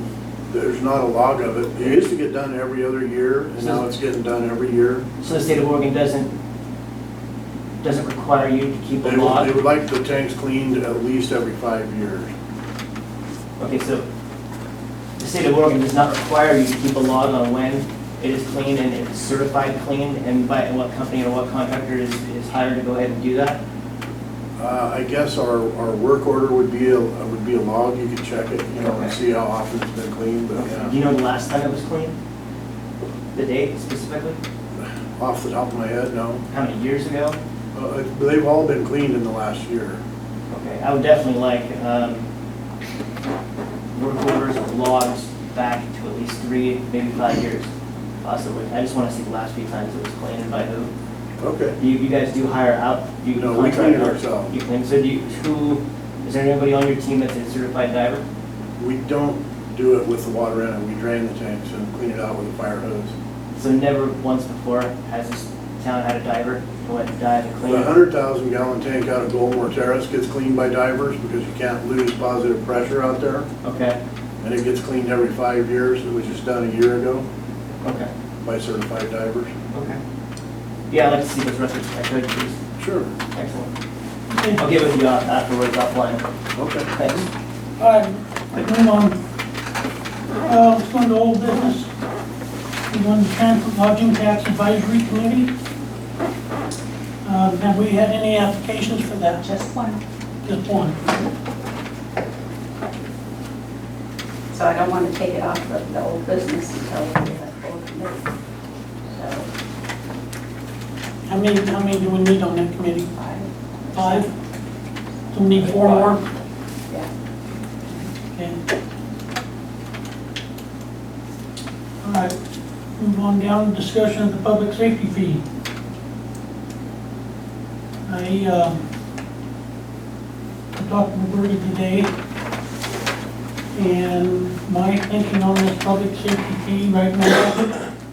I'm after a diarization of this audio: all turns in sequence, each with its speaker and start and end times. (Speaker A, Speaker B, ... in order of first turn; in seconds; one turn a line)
Speaker A: 0.5-5.0
Speaker B: 1.8-2.1
Speaker B: 3.6-3.9
Speaker B: 5.2-6.3
Speaker B: 7.8-9.5
Speaker A: 9.0-12.3
Speaker B: 13.6-14.1
Speaker B: 15.2-23.6
Speaker A: 24.6-30.9
Speaker B: 28.8-29.2
Speaker B: 30.6-32.1
Speaker B: 33.3-34.4
Speaker A: 34.8-36.4
Speaker B: 36.5-37.4
Speaker A: 37.7-40.0
Speaker B: 40.5-42.3
Speaker B: 43.9-47.7
Speaker B: 48.2-50.9
Speaker A: 51.4-51.8
Speaker B: 51.8-58.2
Speaker A: 53.4-54.6
Speaker A: 58.8-63.1
Speaker B: 63.5-68.0
Speaker A: 67.7-73.5
Speaker B: 73.6-74.0
Speaker A: 74.4-77.2
Speaker B: 77.8-78.1
Speaker A: 78.4-79.5
Speaker B: 79.7-80.0
Speaker B: 80.9-82.6
Speaker A: 82.8-83.1
Speaker B: 83.3-83.7
Speaker C: 84.3-84.7
Speaker B: 84.6-86.2
Speaker A: 86.6-86.9
Speaker B: 87.0-87.3
Speaker C: 87.8-89.2
Speaker C: 90.5-91.9
Speaker C: 92.9-95.5
Speaker C: 97.2-99.5
Speaker D: 99.5-100.0
Speaker C: 100.4-101.0
Speaker D: 104.5-108.2
Speaker D: 109.1-109.5
Speaker C: 111.3-113.2
Speaker D: 113.2-114.3
Speaker C: 113.9-114.3
Speaker C: 115.3-116.2
Speaker D: 115.6-116.1
Speaker C: 122.0-122.3
Speaker C: 123.0-125.4
Speaker C: 128.1-128.8
Speaker C: 130.8-132.1
Speaker C: 133.8-137.8